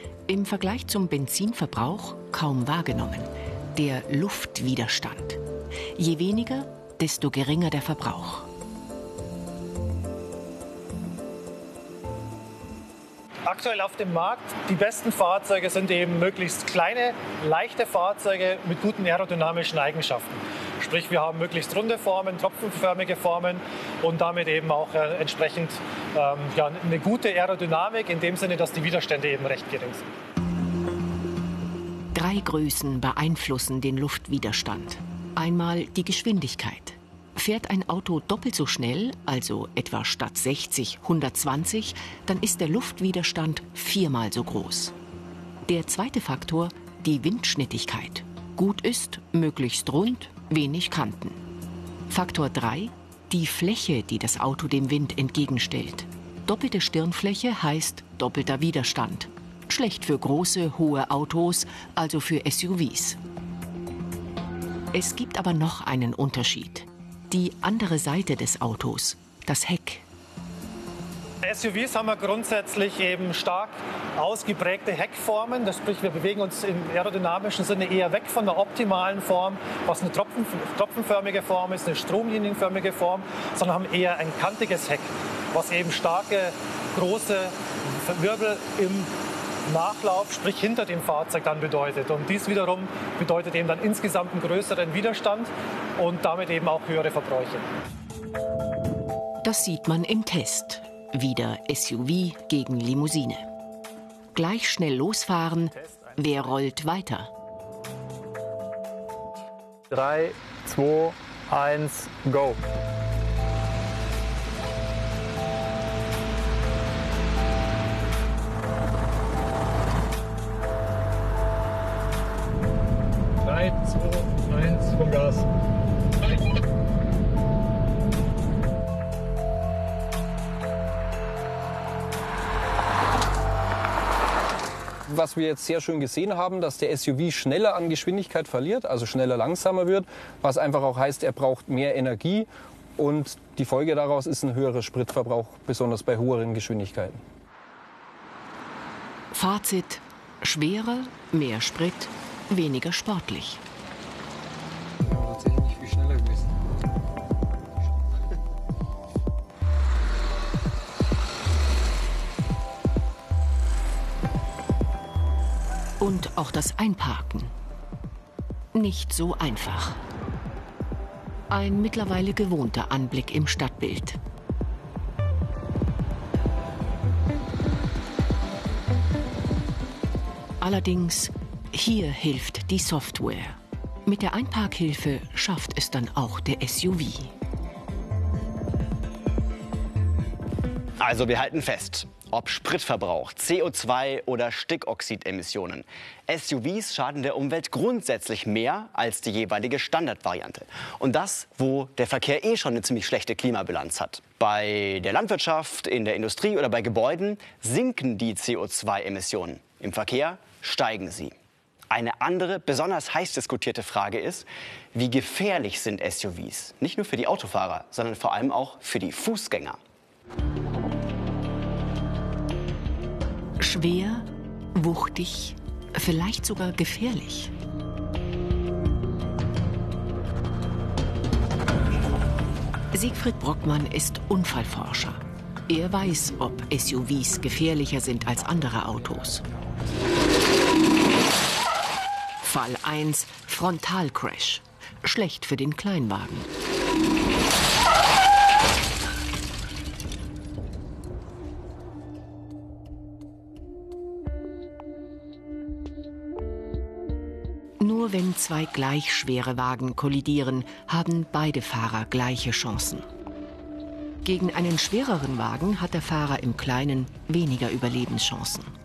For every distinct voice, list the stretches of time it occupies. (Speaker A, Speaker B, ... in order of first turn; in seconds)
Speaker A: 0.3-5.4, 5.9-8.5, 32.1-44.9, 45.7-51.4, 52.1-63.2, 64.9-70.0, 99.4-103.4, 104.3-107.3, 149.3-153.6, 166.0-167.5, 168.7-170.0, 171.5-174.2, 180.6-187.3, 223.6-227.5, 232.9-239.4, 242.4-246.5, 257.8-263.0, 264.2-268.7
Speaker B: 13.4-30.0, 71.4-89.1, 89.7-97.7
Speaker C: 105.7-106.5, 109.9-112.6, 123.4-125.5
Speaker D: 135.1-147.2, 155.1-156.3
Speaker E: 191.0-211.3, 211.9-219.8